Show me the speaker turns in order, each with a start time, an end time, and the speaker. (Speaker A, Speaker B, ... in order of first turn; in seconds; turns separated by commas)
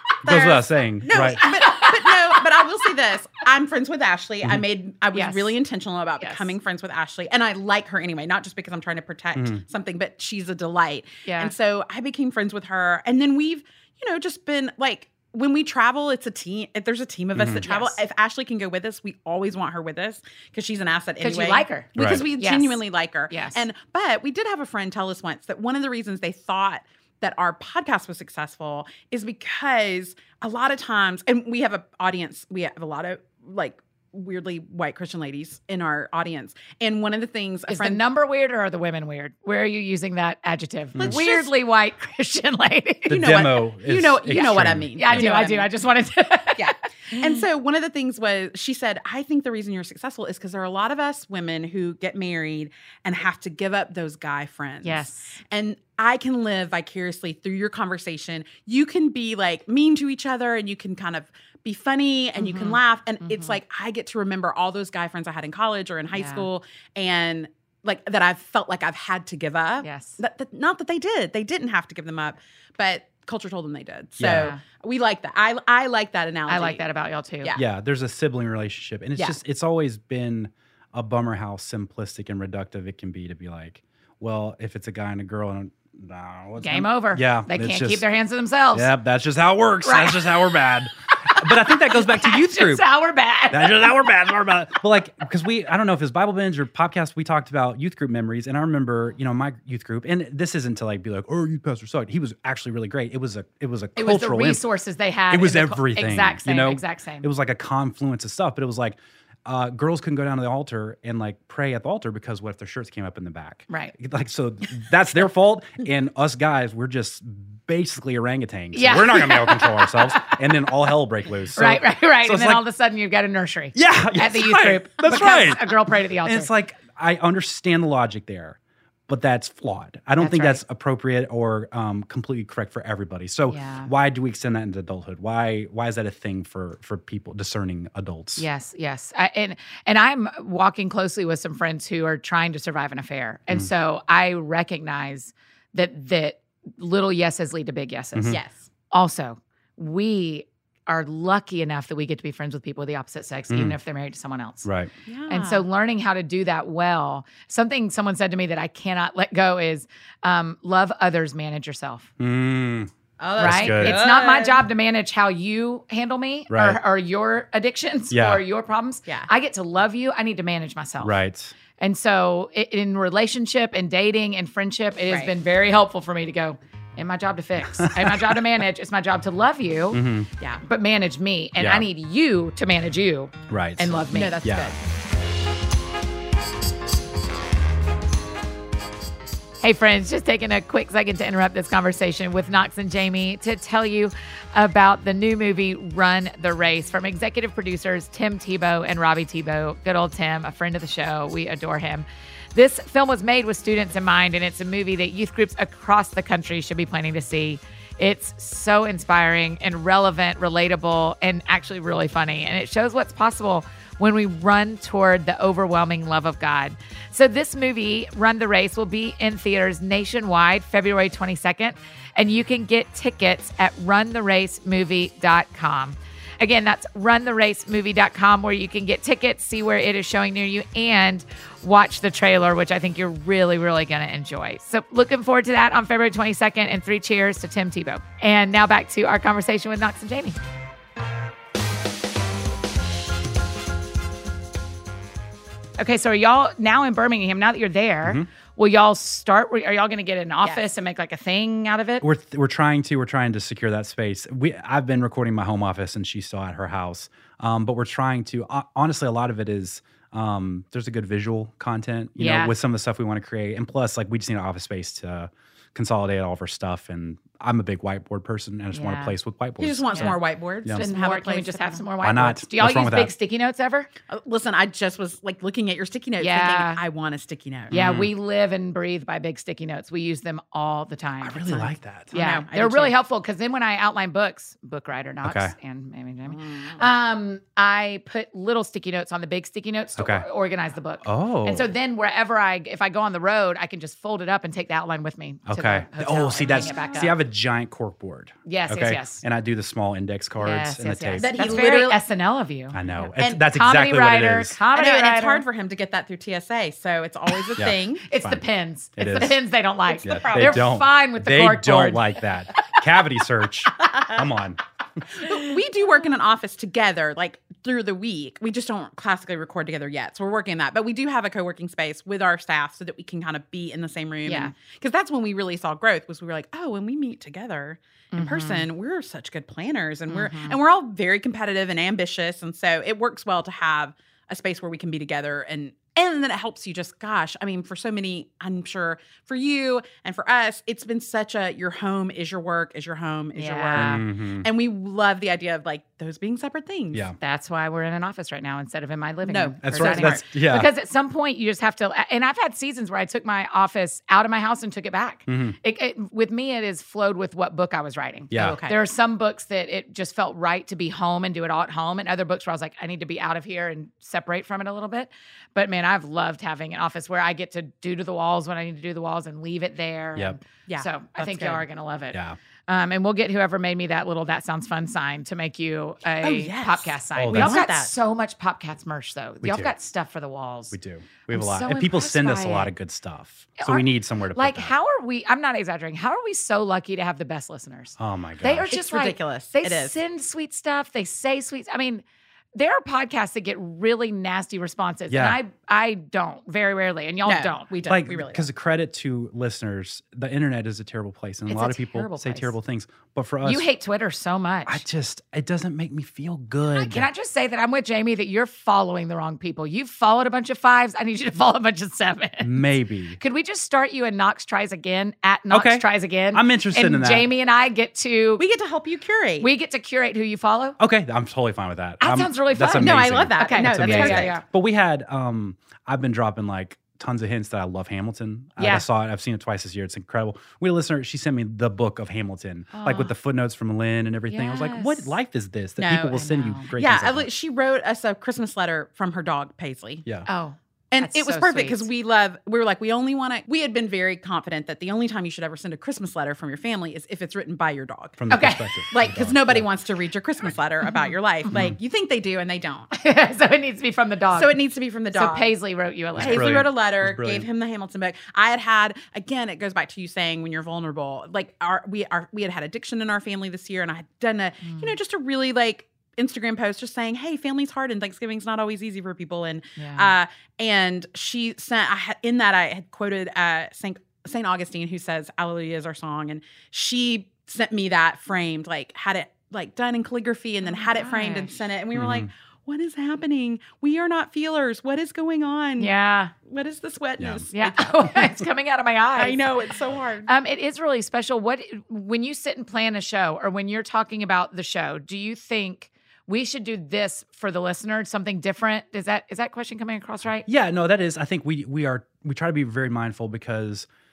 Speaker A: 0.2-1.4, Speaker B: 0.2-38.0, Speaker C: 1.1-2.4, Speaker C: 5.1-5.5, Speaker C: 6.2-6.5, Speaker A: 9.3-9.6, Speaker C: 11.2-11.5, Speaker A: 17.4-17.6, Speaker C: 17.6-18.0, Speaker C: 21.2-23.6, Speaker A: 22.0-22.2, Speaker C: 37.7-43.4, Speaker B: 41.0-41.5, Speaker A: 43.1-45.3, Speaker B: 43.1-45.7, Speaker C: 44.3-47.4, Speaker B: 46.5-76.8, Speaker C: 54.8-55.4, Speaker C: 62.4-63.5, Speaker C: 66.1-66.5, Speaker C: 69.8-70.2, Speaker A: 74.2-74.5, Speaker C: 74.3-74.6, Speaker C: 76.5-77.5, Speaker A: 77.5-88.0, Speaker C: 86.6-88.9, Speaker A: 88.7-92.8, Speaker C: 89.8-90.4, Speaker C: 91.4-93.8, Speaker A: 93.5-104.6, Speaker C: 104.0-107.3, Speaker A: 105.3-122.6, Speaker C: 113.7-113.9, Speaker C: 118.7-120.6, Speaker C: 121.5-126.5, Speaker A: 123.7-138.4, Speaker C: 130.2-130.6, Speaker C: 133.5-133.9, Speaker C: 138.4-154.7, Speaker A: 148.1-148.4, Speaker B: 148.3-148.7, Speaker A: 153.5-153.8, Speaker A: 154.6-154.9, Speaker B: 155.1-155.6, Speaker C: 155.3-162.1, Speaker A: 162.2-164.0, Speaker B: 163.2-164.6, Speaker C: 163.4-171.2, Speaker A: 166.5-166.8, Speaker A: 168.1-168.4, Speaker A: 171.0-171.5, Speaker C: 171.8-180.1, Speaker A: 177.7-178.4, Speaker A: 179.9-180.3, Speaker C: 180.6-184.4, Speaker A: 181.6-181.9, Speaker A: 183.5-184.7, Speaker B: 184.1-184.7, Speaker C: 189.6-240.4, Speaker C: 245.8-252.0, Speaker A: 252.0-270.9, Speaker C: 262.2-262.5, Speaker C: 268.7-269.1, Speaker B: 269.6-271.9, Speaker C: 269.9-270.2, Speaker C: 270.7-273.9, Speaker A: 272.0-273.1, Speaker B: 274.1-277.8, Speaker C: 276.2-276.8, Speaker C: 277.7-297.1, Speaker A: 277.7-278.1, Speaker A: 281.2-282.1, Speaker B: 282.1-282.9, Speaker A: 285.2-285.5, Speaker B: 286.3-286.9, Speaker A: 290.0-290.2, Speaker A: 291.0-291.7, Speaker A: 295.5-301.4, Speaker B: 296.4-297.0, Speaker C: 298.4-299.2, Speaker C: 300.4-305.4, Speaker B: 301.2-302.0, Speaker A: 302.7-304.6, Speaker B: 303.2-303.4, Speaker B: 304.7-308.1, Speaker A: 307.6-308.4, Speaker C: 308.1-312.6, Speaker A: 308.9-309.4, Speaker B: 309.9-310.6, Speaker A: 310.0-315.0, Speaker C: 313.7-314.0, Speaker B: 315.1-347.1, Speaker C: 324.2-324.5, Speaker C: 328.1-328.6, Speaker C: 330.1-330.6, Speaker C: 343.3-344.0, Speaker A: 343.7-344.5, Speaker C: 347.2-380.7, Speaker B: 349.2-350.2, Speaker A: 349.6-350.7, Speaker A: 355.3-355.6, Speaker A: 358.3-358.6, Speaker B: 358.3-358.8, Speaker B: 370.7-371.6, Speaker B: 376.2-377.9, Speaker A: 377.1-377.7, Speaker A: 379.4-379.7, Speaker A: 380.7-384.7, Speaker C: 381.3-382.7, Speaker C: 383.6-392.0, Speaker A: 388.0-388.7, Speaker B: 388.7-390.0, Speaker C: 392.6-398.0, Speaker A: 395.1-395.4, Speaker B: 397.2-398.5, Speaker A: 397.9-403.7, Speaker C: 401.5-402.5, Speaker C: 403.4-404.8, Speaker A: 404.6-407.1, Speaker C: 406.7-412.6, Speaker A: 412.4-413.2, Speaker C: 413.2-418.4, Speaker A: 415.5-417.3, Speaker B: 418.4-419.5, Speaker C: 419.4-420.8, Speaker A: 420.8-437.3, Speaker C: 422.0-424.4, Speaker B: 422.8-424.4, Speaker C: 428.6-428.8, Speaker C: 432.7-433.1, Speaker C: 434.3-435.1, Speaker B: 435.8-440.1, Speaker C: 436.2-436.7, Speaker C: 440.2-441.9, Speaker B: 440.9-448.2, Speaker A: 448.2-449.7, Speaker C: 448.3-448.7, Speaker B: 448.9-452.9, Speaker A: 451.5-451.8, Speaker C: 452.9-454.5, Speaker B: 454.3-455.5, Speaker C: 455.1-456.6, Speaker B: 456.2-485.9, Speaker A: 456.2-457.5, Speaker C: 464.6-464.9, Speaker C: 469.8-470.1, Speaker C: 480.6-481.5, Speaker A: 481.9-482.3, Speaker C: 485.8-486.3, Speaker B: 486.4-488.3, Speaker A: 487.2-487.4, Speaker C: 487.5-489.4, Speaker B: 489.2-490.3, Speaker C: 490.2-500.5, Speaker A: 500.5-503.9